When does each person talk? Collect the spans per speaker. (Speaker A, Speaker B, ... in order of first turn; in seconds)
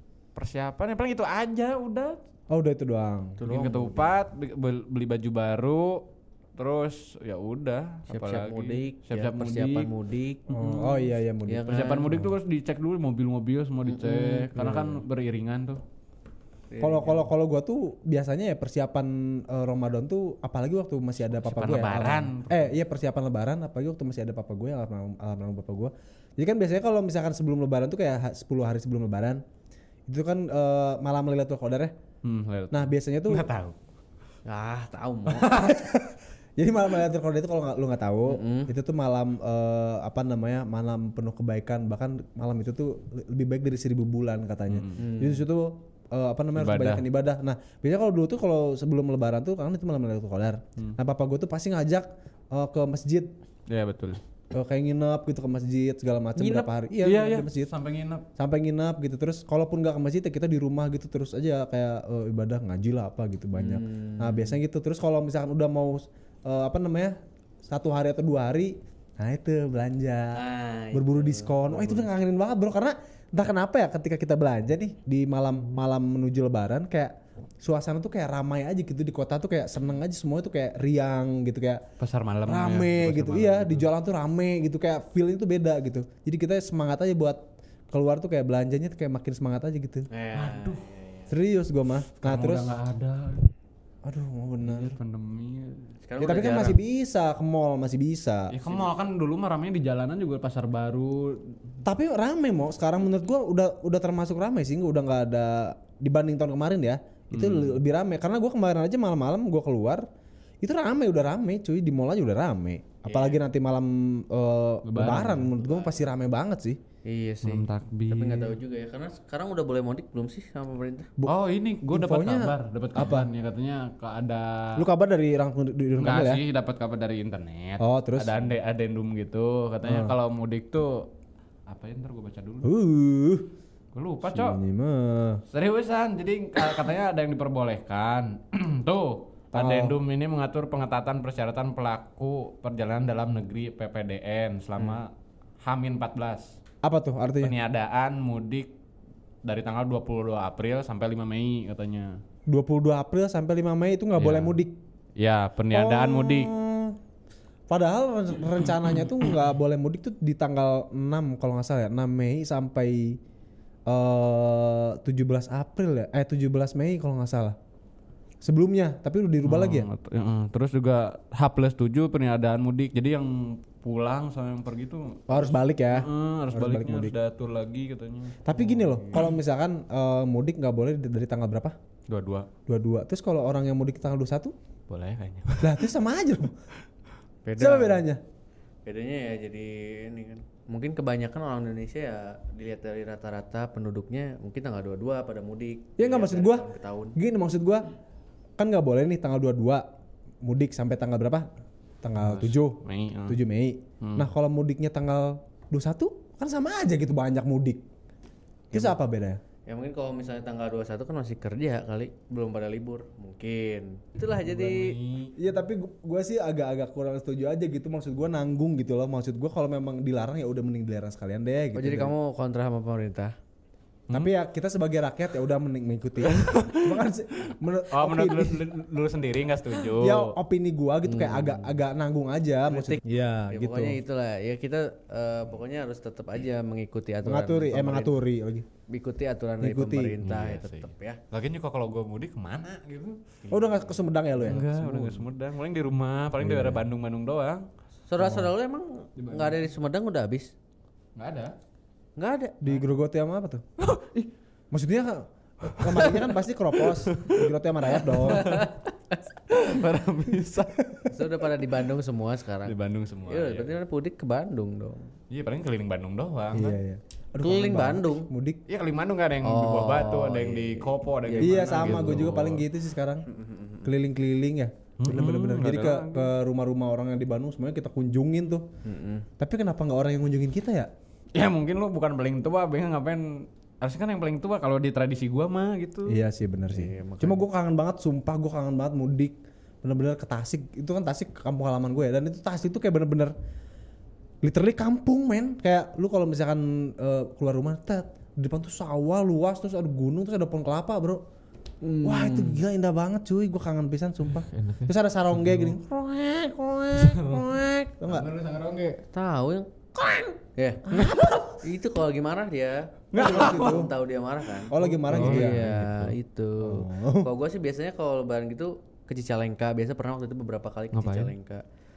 Speaker A: 0.3-2.2, 3.4-6.1, 6.6-9.9, 11.7-15.8, 21.3-22.8, 32.2-33.8, 35.3-35.8, 44.7-45.0, 46.6-47.0, 53.7-54.2, 57.0-58.2, 82.0-83.9, 90.3-90.9, 92.2-93.5, 94.6-96.0, 98.5-101.6, 107.3-107.8, 114.9-115.9, 117.4-118.6, 121.2-124.9, 126.0-131.1, 131.7-132.7, 133.9-134.6, 135.5-146.6, 147.4-148.7, 149.4-152.2, 154.2-154.6, 155.2-156.5, 169.4-179.3, 182.1-182.5, 184.9-185.9, 202.2-203.4, 204.0-204.3, 214.3-215.3, 224.1-224.3, 226.2-227.1, 227.9-230.3, 240.2-247.7, 249.2-249.7, 251.2-251.6, 253.8-254.3, 255.7-258.7, 259.5-260.8, 262.6-263.8, 265.3-266.8, 268.7-272.6, 275.0-276.3, 281.3-286.2, 304.3-305.8, 306.9-307.5, 308.1-309.0, 310.9-311.5, 313.1-313.9, 314.6-316.1, 320.9-321.3
Speaker B: 2.5-3.4, 10.5-11.7, 14.6-15.0, 16.8-29.4, 30.1-31.9, 32.7-33.5, 35.5-53.3, 54.5-57.7, 58.4-70.4, 70.9-81.8, 82.5-90.1, 91.3-92.7, 94.0-95.0, 96.2-98.6, 101.8-110.1, 110.6-116.8, 121.2-123.3, 124.8-126.4, 127.8-128.4, 129.8-130.1, 132.6-133.5, 134.2-135.4, 139.5-140.0, 146.8-147.6, 152.5-154.8, 155.7-157.0, 157.7-163.2, 163.9-167.6, 168.4-169.9, 175.3-177.2, 178.4-181.8, 182.7-184.5, 185.6-186.6, 187.6-188.2, 196.0-197.9, 198.6-199.8, 200.4-201.5, 202.0-207.8, 208.7-209.4, 215.4-222.1, 224.1-228.7, 229.9-234.0, 237.2-238.7, 239.6-240.2, 243.5-245.3, 246.4-246.9, 248.2-248.5, 252.6-253.6, 254.7-258.6, 266.5-268.6, 271.4-273.3, 273.8-278.7, 279.4-280.9, 286.1-293.3, 294.4-301.2, 302.0-308.3, 310.9-311.5, 313.1-313.9, 314.7-315.7, 316.6-317.3
Speaker C: 3.4-4.1, 8.1-12.2, 13.9-14.9, 16.7-17.3, 34.5-35.6, 38.3-38.7, 45.0-45.4, 56.4-56.7, 63.5-64.6, 70.3-72.1, 90.1-91.3, 96.1-96.8, 113.1-113.4, 117.0-121.1, 187.5-188.0, 188.8-197.2, 209.7-215.0, 221.8-223.3, 231.1-231.8, 232.7-238.2, 238.9-241.2, 248.1-250.5, 252.2-252.6, 258.0-259.2, 261.1-262.8, 263.3-265.1, 267.4-268.3, 269.4-272.3, 273.3-273.9, 278.8-279.3, 286.7-287.4, 301.8-302.6, 309.1-309.8, 310.4-311.1, 311.6-321.6